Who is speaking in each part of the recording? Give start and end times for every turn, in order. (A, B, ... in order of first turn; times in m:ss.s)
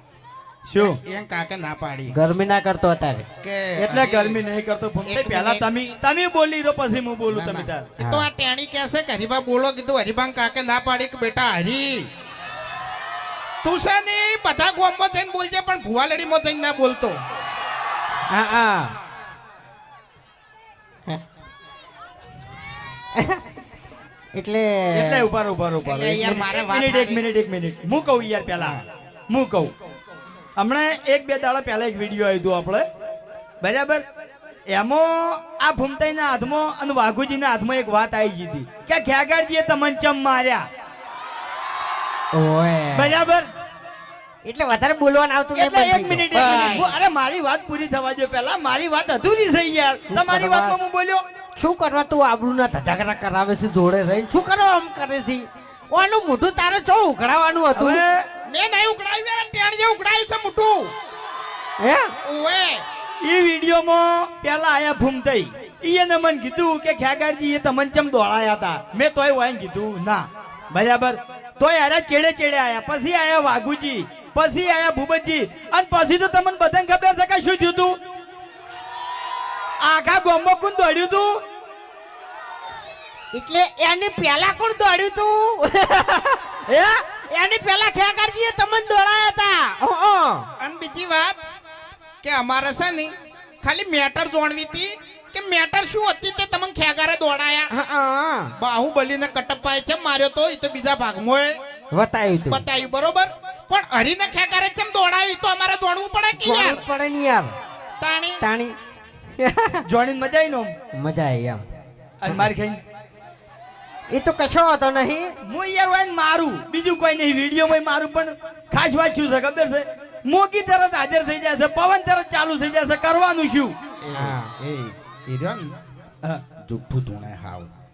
0:00.7-0:01.0 A
0:00.8-0:02.1 B
0:02.1-0:03.2 C
0:03.4-0:04.4 B
0:03.8-0:07.9 A
0:05.0-0:05.6 B
0:07.3-0:12.1 B
0:08.0-0:08.3 C
0:13.6-0:17.2 B
0:18.3-0:19.0 C
0:24.4-0:25.3 C
0:24.9-0:29.7 A
0:25.8-0:27.2 B
0:30.6-0:32.8 A
0:33.6-0:34.0 A
0:34.7-0:40.7 A
0:42.3-0:43.2 C
0:42.9-0:43.5 A
0:44.4-0:46.9 C
0:45.5-0:51.2 A
0:46.5-0:46.8 B
0:50.1-0:50.8 C
0:51.6-0:58.0 C
0:57.7-0:58.3 A
0:58.4-1:00.9 B
1:01.8-1:02.1 C
1:02.2-1:02.8 B
1:03.2-1:18.0 A
1:19.8-1:21.4 A
1:23.3-1:30.5 C
1:30.6-1:31.3 B
1:32.2-1:37.7 B
1:37.7-1:38.5 C
1:38.6-1:41.6 B
1:41.9-1:42.6 C
1:42.5-1:46.8 B
1:46.3-1:47.5 C
1:48.0-1:48.4 B
1:48.4-1:48.8 C
1:49.4-1:49.8 C
1:49.8-1:50.7 A
1:50.9-1:51.6 C
1:52.2-1:52.8 A
1:54.1-1:55.3 C
1:55.4-2:03.8 A
2:04.0-2:05.8 B
2:04.1-2:04.5 C
2:06.3-2:07.7 B